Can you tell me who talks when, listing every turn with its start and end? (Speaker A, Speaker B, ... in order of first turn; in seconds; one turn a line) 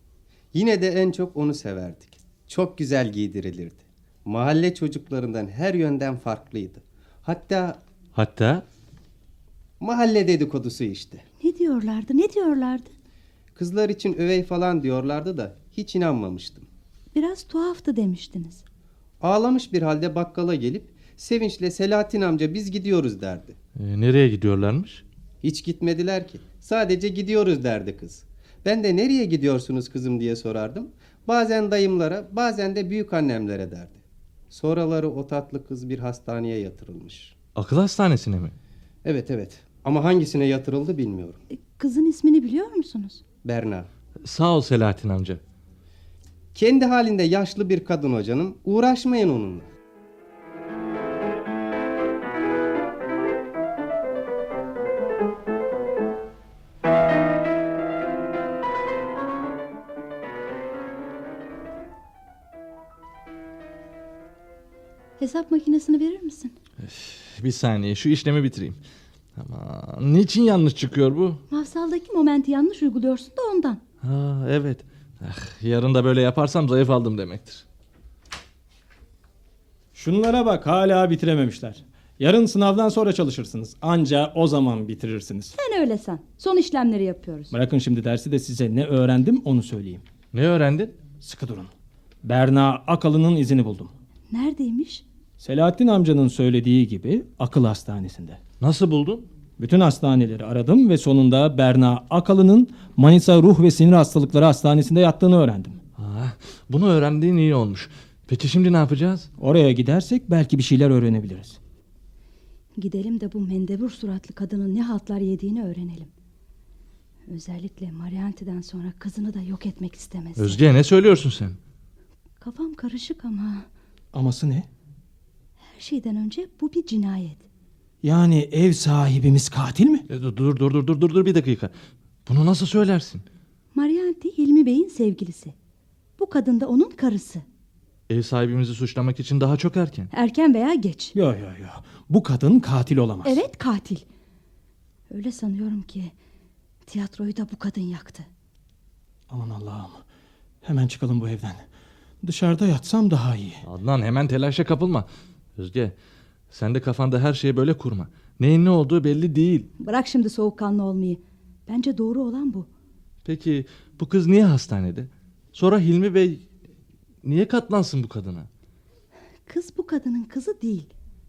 Speaker A: 0.5-7.8
Speaker B: 8.1-8.6
Speaker A: 9.8-11.2
Speaker C: 11.4-12.9
Speaker A: 13.5-16.7
Speaker C: 17.1-18.6
Speaker A: 19.2-23.6
Speaker B: 23.8-25.0
Speaker A: 25.4-37.3
Speaker B: 37.5-38.5
Speaker A: 39.0-41.4
Speaker C: 41.5-43.2
Speaker A: 43.4-43.9
Speaker B: 44.2-45.4
Speaker A: 46.5-49.7
Speaker C: 65.2-66.5
Speaker B: 66.8-68.8
Speaker B: 69.3-71.4
Speaker C: 71.5-73.8
Speaker B: 74.0-77.6
Speaker D: 79.9-85.5
Speaker C: 85.5-87.5
Speaker D: 87.5-90.0
Speaker B: 90.3-91.0
Speaker D: 91.2-91.7
Speaker D: 92.2-93.9
Speaker C: 94.3-95.0
Speaker D: 95.4-98.4
Speaker B: 98.6-99.3
Speaker D: 99.6-105.8
Speaker B: 106.0-109.3
Speaker D: 109.4-111.6
Speaker C: 112.8-116.1
Speaker C: 117.3-120.6
Speaker B: 120.4-121.6
Speaker C: 122.4-123.7
Speaker D: 124.1-124.7
Speaker C: 125.6-127.4
Speaker D: 128.0-130.1
Speaker B: 130.1-131.7
Speaker B: 132.2-133.2
Speaker C: 133.7-135.5
Speaker C: 136.2-137.4
Speaker B: 138.1-140.1
Speaker C: 140.1-141.1
Speaker D: 141.1-143.4
Speaker C: 143.2-144.0
Speaker C: 145.1-146.1
Speaker C: 146.8-148.3
Speaker D: 149.3-150.0
Speaker D: 150.6-151.6
Speaker D: 152.2-153.6
Speaker B: 153.6-155.9
Speaker B: 156.5-159.7
Speaker C: 159.8-162.7
Speaker B: 163.2-166.4
Speaker B: 167.2-168.5
Speaker C: 169.5-170.9